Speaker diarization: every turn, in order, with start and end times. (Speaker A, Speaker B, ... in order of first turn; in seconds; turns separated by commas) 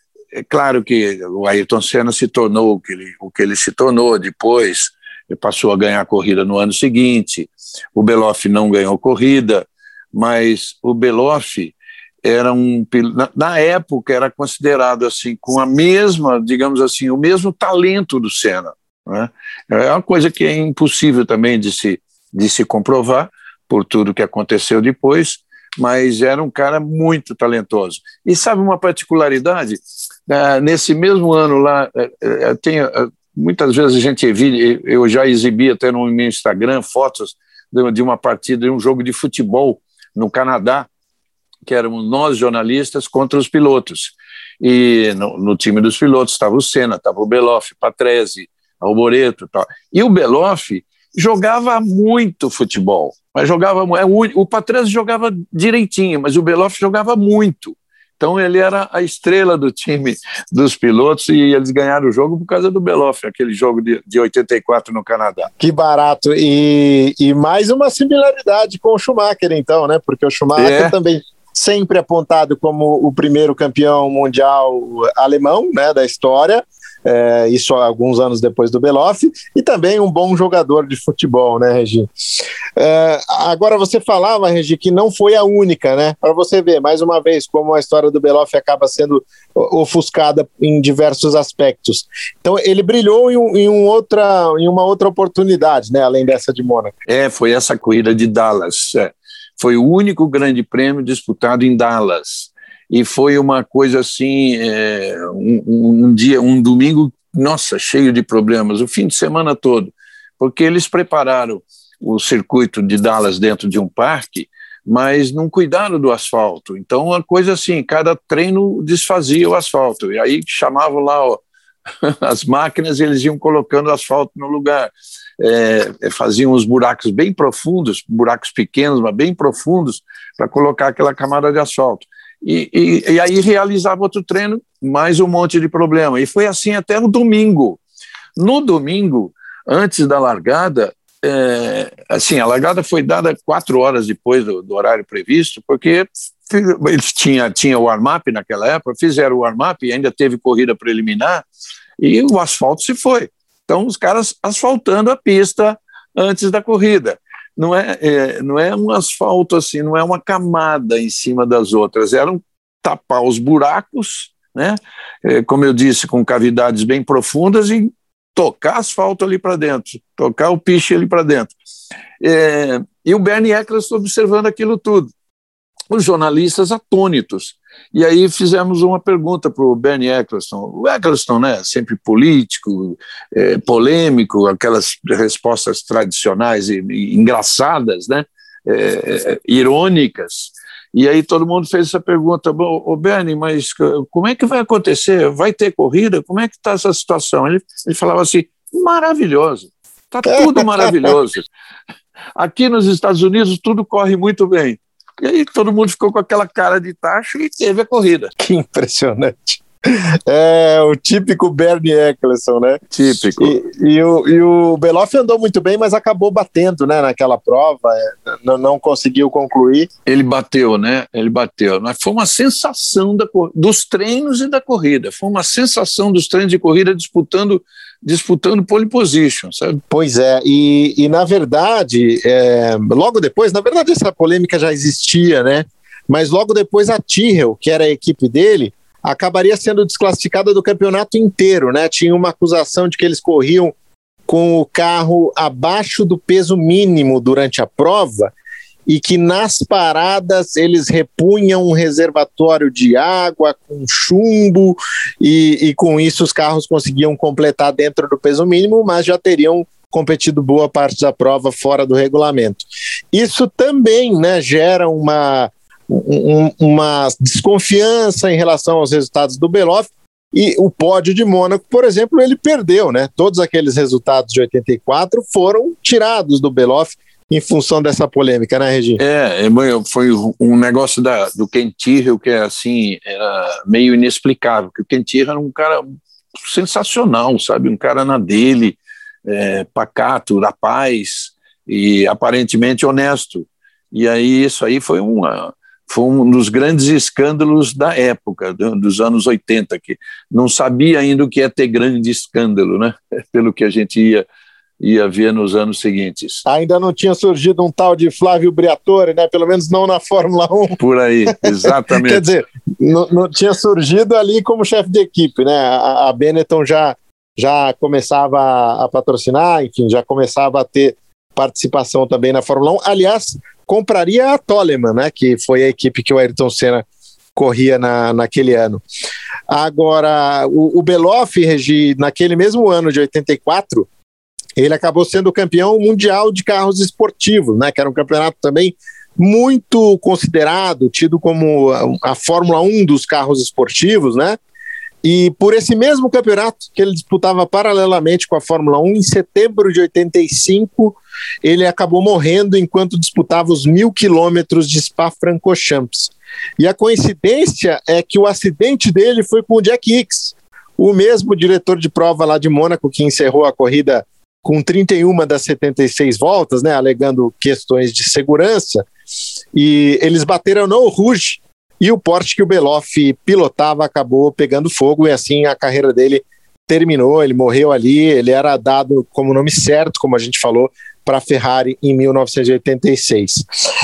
Speaker A: 0.3-40.9, Speaker A: 41.7-65.5, Speaker B: 65.6-82.1, Speaker A: 70.6-71.0, Speaker B: 82.8-96.9, Speaker A: 97.1-121.4, Speaker A: 122.0-137.8, Speaker A: 138.4-151.5, Speaker A: 152.0-171.5, Speaker A: 172.2-175.1, Speaker A: 175.9-201.5, Speaker A: 202.4-208.3, Speaker B: 208.4-212.8, Speaker A: 212.9-213.6, Speaker B: 213.3-219.9, Speaker A: 220.1-229.8, Speaker B: 229.9-243.7, Speaker B: 244.3-248.3, Speaker B: 248.9-279.0, Speaker A: 279.0-304.2, Speaker A: 304.8-306.4, Speaker B: 306.4-310.8, Speaker A: 310.8-312.3, Speaker B: 311.3-326.8, Speaker B: 327.4-328.8, Speaker B: 329.5-333.9, Speaker B: 334.6-344.4, Speaker B: 345.0-368.9, Speaker B: 369.5-383.4